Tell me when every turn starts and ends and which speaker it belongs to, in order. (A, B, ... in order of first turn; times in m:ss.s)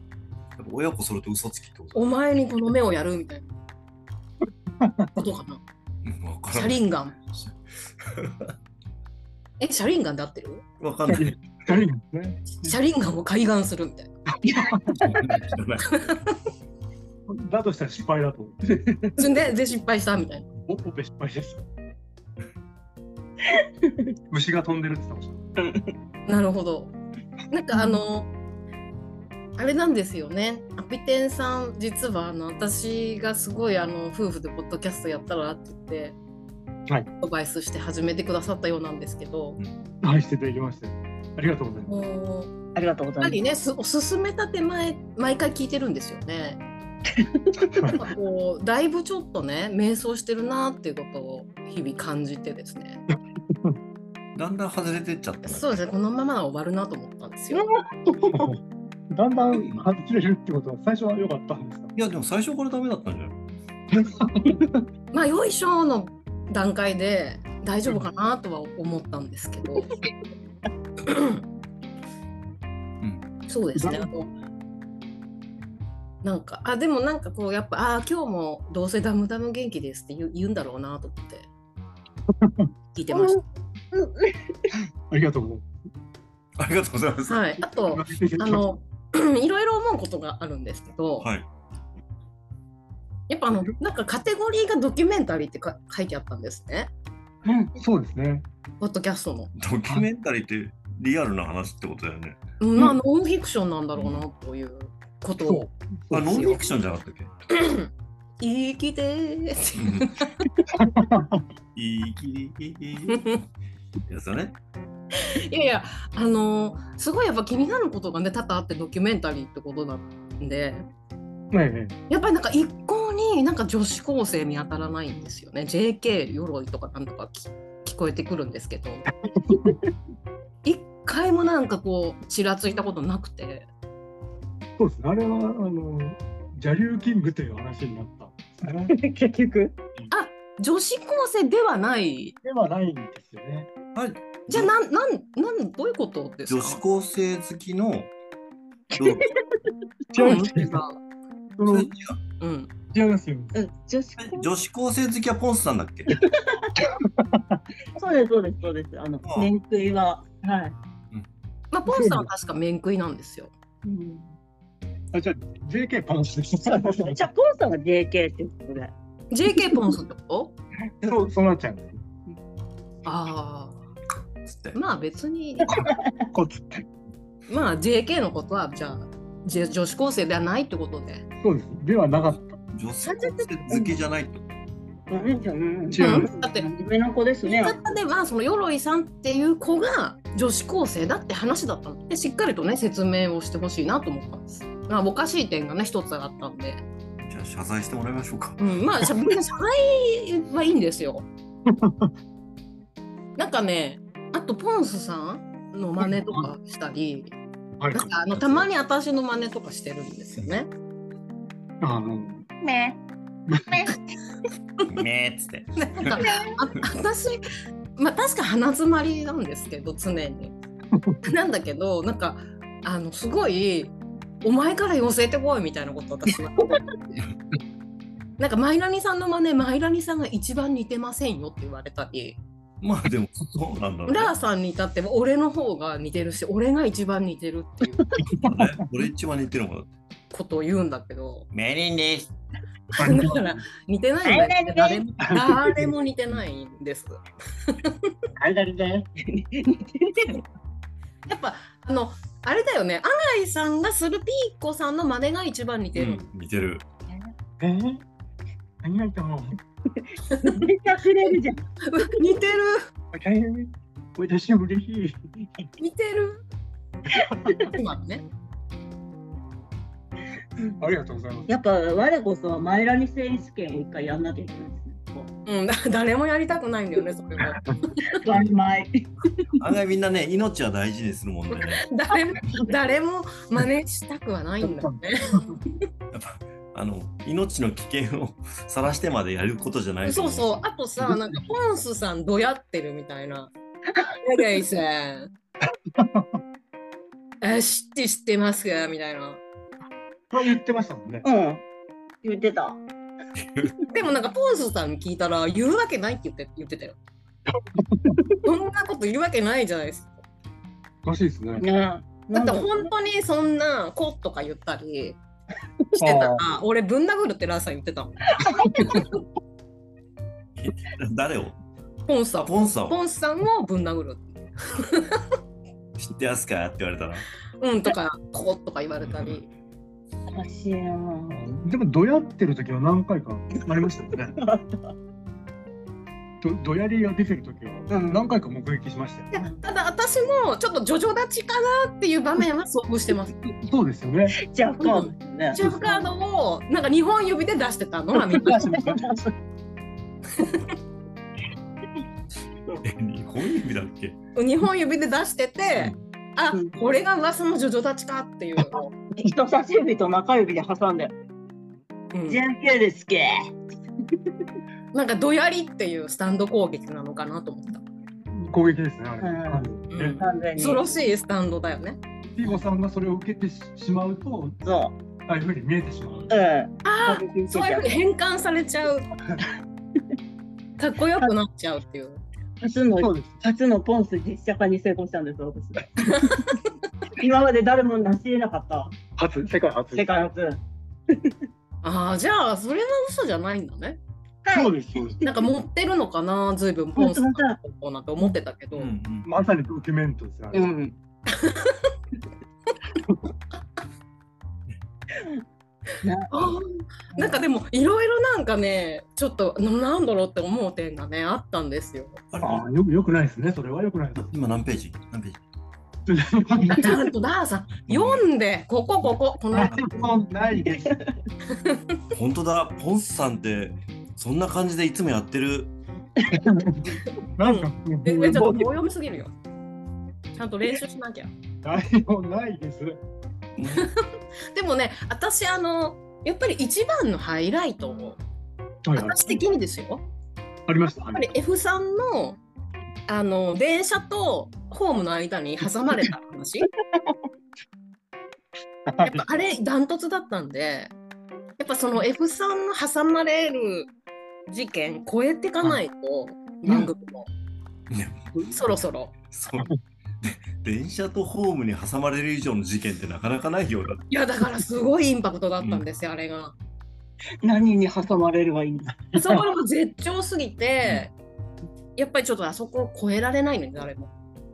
0:00.6-0:02.0 A
0:02.0-0:03.5 B
0:04.8-0:05.1 C
0:05.2-0:05.6 B
0:06.0-0:08.5 A
0:06.5-0:07.2 B
0:09.6-0:10.6 B
0:10.8-0:11.7 A
0:11.1-0:12.5 C
0:12.6-0:14.1 B
0:14.4-0:15.2 C
0:14.5-0:15.1 D
0:15.0-0:16.0 A
0:15.9-0:16.3 B
0:17.3-0:18.8 C
0:19.2-0:20.5 B
0:20.7-0:21.6 C
0:24.3-0:25.4 C
0:25.6-0:25.9 D
0:26.3-0:26.9 B
0:27.5-0:28.3 B
0:29.6-0:36.2 B
0:37.2-0:39.6 B
0:40.0-0:42.0 C
0:41.9-0:42.5 B
0:42.8-0:43.4 D
0:43.2-0:46.6 B
0:47.7-0:48.0 C
0:47.9-0:53.0 B
0:53.5-0:53.8 C
0:54.4-0:55.8 A
0:55.4-0:57.7 B
0:58.2-0:58.6 C
0:59.1-1:01.9 C
1:02.0-1:03.4 A
1:03.9-1:04.7 C
1:05.1-1:09.9 B
1:11.1-1:11.4 B
1:13.5-1:14.3 B
1:13.8-1:14.1 C
1:16.2-1:21.5 B
1:22.3-1:22.7 C
1:23.0-1:23.4 B
1:23.1-1:23.4 D
1:23.9-1:24.5 D
1:25.1-1:25.7 C
1:26.6-1:27.5 A
1:27.3-1:31.3 B
1:27.9-1:28.7 C
1:31.2-1:31.5 A
1:33.3-1:36.9 B
1:37.4-1:37.7 D
1:37.8-1:38.5 C
1:38.8-1:39.5 B
1:39.6-1:42.4 A
1:42.6-1:45.7 B
1:44.0-1:44.2 A
1:45.4-1:46.6 C
1:46.1-1:47.3 A
1:46.3-1:46.6 B
1:47.5-1:47.9 B
1:48.4-1:50.3 B
1:49.8-1:50.1 A
1:50.7-1:51.4 C
1:51.8-1:53.4 A
1:53.1-1:53.4 B
1:54.1-1:54.6 A
1:55.2-2:00.9 B
2:01.5-2:02.0 C
2:02.1-2:09.1 B
2:09.3-2:09.8 C
2:10.6-2:13.7 B
2:14.8-2:18.9 C
2:18.9-2:19.8 D
2:20.1-2:22.4 B
2:22.4-2:23.7 C
2:24.0-2:24.7 A
2:24.5-2:26.8 B
2:26.5-2:28.1 A
2:29.0-2:29.3 A
2:30.1-2:30.8 C
2:30.2-2:31.0 B
2:31.6-2:31.9 C
2:31.7-2:32.2 A
2:32.4-2:32.7 B
2:32.9-2:33.6 C
2:33.5-2:34.5 D
2:34.2-2:36.2 A
2:36.2-2:36.8 D
2:36.8-2:37.6 C
2:38.0-2:40.8 D
2:39.2-2:39.5 A
2:41.7-2:43.5 B
2:41.9-2:42.3 C
2:43.8-2:44.4 D
2:45.1-2:47.3 C
2:46.7-2:48.9 D
2:49.3-2:50.5 B
2:51.0-2:52.0 C
2:53.0-2:53.8 B
2:54.5-2:54.8 A
2:54.7-2:55.8 B
2:55.6-2:56.9 C
2:57.5-3:01.2 B
3:01.4-3:02.6 C
3:02.7-3:04.4 A
3:03.0-3:03.5 B
3:05.1-3:07.8 D
3:05.9-3:06.3 C
3:06.0-3:06.7 B
3:07.4-3:16.8 B
3:17.2-3:18.6 A
3:18.6-3:21.3 B
3:21.7-3:22.1 C
3:23.4-3:27.3 B
3:26.0-3:26.5 C
3:27.8-3:28.1 C
3:27.9-3:30.7 B
3:28.4-3:28.6 A
3:31.8-3:32.5 C
3:32.6-3:33.0 D
3:33.5-3:33.8 C
3:33.6-3:34.0 D
3:34.9-3:36.3 A
3:35.8-3:37.4 B
3:36.2-3:36.5 D
3:38.0-3:40.5 B
3:40.9-3:41.2 C
3:41.2-3:47.2 B
3:48.4-3:52.4 B
3:52.8-3:54.3 A
3:54.1-3:58.1 B
3:58.2-3:58.9 C
3:58.3-3:59.9 A
4:00.3-4:01.5 B
4:01.5-4:02.3 A
4:02.9-4:07.9 B
4:03.0-4:03.6 C
4:04.2-4:05.0 D
4:05.2-4:05.9 C
4:08.4-4:09.1 C
4:09.2-4:10.4 D
4:11.3-4:16.2 B
4:16.0-4:16.8 A
4:17.6-4:18.0 C
4:18.8-4:19.6 C
4:20.0-4:21.7 D
4:21.8-4:22.9 B
4:23.1-4:25.6 C
4:25.8-4:26.4 B
4:27.1-4:27.7 C
4:27.6-4:28.2 B
4:30.8-4:31.5 C
4:31.5-4:35.3 D
4:35.5-4:38.2 B
4:38.2-4:39.6 D
4:39.6-4:41.9 A
4:41.5-4:45.6 B
4:44.6-4:45.6 C
4:46.1-4:50.6 A
4:50.0-4:53.5 B
4:51.0-4:51.4 C
4:54.2-4:55.3 B
4:55.9-4:56.4 C
4:57.4-4:59.4 B
5:00.3-5:01.3 C
5:01.2-5:01.6 D
5:02.2-5:02.8 D
5:03.4-5:03.7 A
5:03.9-5:07.0 B
5:07.7-5:08.2 C
5:08.4-5:10.1 B
5:11.0-5:11.6 C
5:11.6-5:12.9 D
5:12.3-5:15.2 B
5:16.0-5:19.1 B
5:16.0-5:16.5 C
5:18.4-5:19.0 D
5:20.6-5:21.6 A
5:22.1-5:25.2 B
5:22.4-5:23.0 A
5:26.0-5:27.3 A
5:27.6-5:29.5 B
5:29.1-5:29.3 A
5:30.3-5:31.4 D
5:31.3-5:34.4 C
5:34.4-5:35.0 D
5:36.4-5:39.4 C
5:37.9-5:38.2 D
5:39.4-5:39.6 D
5:39.6-5:43.3 B
5:43.6-5:44.4 C
5:44.5-5:46.1 D
5:44.8-5:48.7 B
5:48.2-5:49.2 C
5:48.5-5:49.3 D
5:50.4-5:50.7 B
5:52.8-5:54.2 A
5:54.4-5:58.9 B
5:55.7-5:56.0 A
5:56.5-5:56.8 D
5:59.1-6:01.1 D
6:02.1-6:02.4 B
6:02.3-6:03.5 D
6:04.9-6:07.9 B
6:08.4-6:10.2 C
6:09.2-6:10.9 D
6:09.9-6:12.0 B
6:12.4-6:14.6 C
6:14.6-6:15.0 D
6:15.2-6:16.4 C
6:16.3-6:18.0 D
6:16.8-6:19.1 B
6:20.8-6:22.2 B
6:22.6-6:26.5 D
6:23.0-6:23.4 C
6:26.0-6:26.6 B
6:27.1-6:29.0 D
6:29.2-6:30.1 C
6:29.9-6:31.3 D
6:31.8-6:34.0 B
6:34.4-6:35.4 D
6:34.5-6:35.2 C
6:35.2-6:38.9 B
6:37.0-6:37.6 D
6:38.7-6:39.3 A
6:39.2-6:40.7 C
6:40.5-6:41.0 D
6:41.3-6:41.9 B
6:46.0-6:46.6 D
6:46.3-6:52.2 B
6:47.2-6:47.4 D
6:52.3-6:52.6 A
6:52.4-6:54.3 C
6:54.2-6:55.4 A
6:56.1-6:57.0 C
6:56.7-6:59.8 B
6:57.9-6:58.2 A
6:59.5-7:01.0 C
6:59.7-7:00.0 A
7:00.6-7:01.1 D
7:01.6-7:01.8 B
7:02.1-7:05.7 A
7:06.3-7:06.8 C
7:07.4-7:08.7 C
7:07.4-7:09.3 B
7:10.4-7:11.3 B
7:11.6-7:13.0 C
7:13.6-7:13.9 A
7:14.5-7:18.2 B
7:18.8-7:19.4 C
7:19.0-7:20.0 B
7:20.7-7:21.3 C
7:21.1-7:22.4 B
7:23.1-7:26.7 B
7:28.9-7:29.3 C
7:29.0-7:30.9 B
7:31.6-7:33.9 B
7:34.5-7:37.3 B
7:36.7-7:36.9 C
7:37.9-7:38.5 A
7:38.5-7:39.1 B
7:39.3-7:44.0 A
7:44.1-7:46.6 B
7:47.4-7:48.9 D
7:49.1-7:49.5 C
7:49.1-7:51.1 B
7:52.0-7:54.1 B